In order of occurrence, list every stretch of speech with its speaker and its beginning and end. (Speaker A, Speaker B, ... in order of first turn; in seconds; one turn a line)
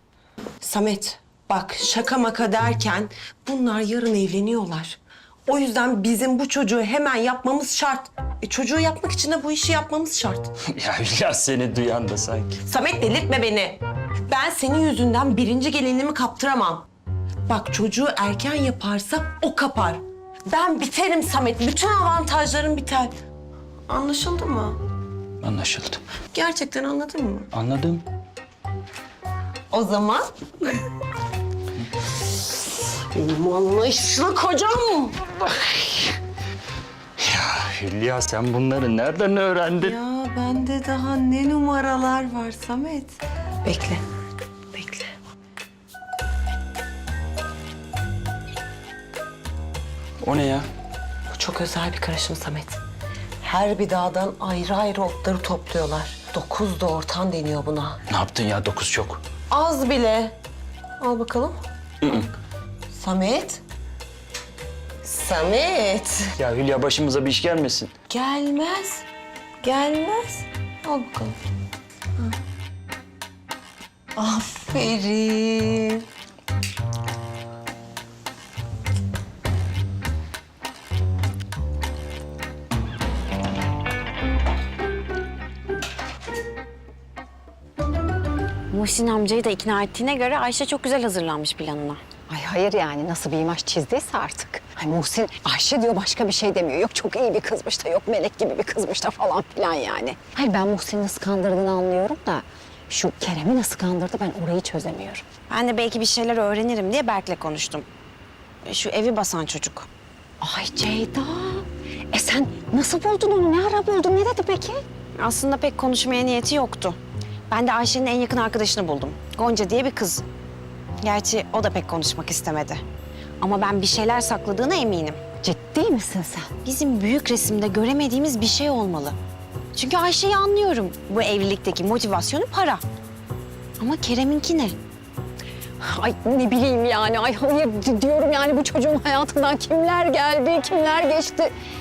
Speaker A: 0.6-10.5
Speaker B: 10.7-12.6
Speaker A: 12.7-16.9
Speaker A: 17.5-23.1
Speaker A: 23.9-24.8
Speaker B: 25.4-26.0
Speaker A: 26.3-27.5
Speaker B: 27.5-28.0
Speaker A: 29.7-30.8
Speaker A: 33.1-35.8
Speaker B: 37.2-39.9
Speaker A: 39.8-44.0
Speaker A: 44.7-45.1
Speaker B: 50.2-50.7
Speaker A: 51.3-52.8
Speaker A: 53.4-58.0
Speaker B: 58.1-59.2
Speaker A: 59.5-60.4
Speaker A: 61.0-61.6
Speaker B: 62.0-62.3
Speaker A: 62.9-63.6
Speaker A: 65.0-66.3
Speaker B: 66.4-67.9
Speaker A: 68.1-69.1
Speaker A: 69.6-71.4
Speaker A: 74.2-76.0
Speaker C: 88.7-92.0
Speaker D: 92.3-105.2
Speaker C: 105.5-107.9
Speaker C: 108.7-109.9
Speaker D: 110.4-114.8
Speaker C: 115.2-120.2
Speaker C: 121.0-122.8
Speaker C: 123.4-125.2
Speaker D: 125.4-126.5
Speaker C: 126.6-129.2
Speaker C: 129.7-132.8
Speaker C: 133.8-134.8
Speaker D: 135.8-141.5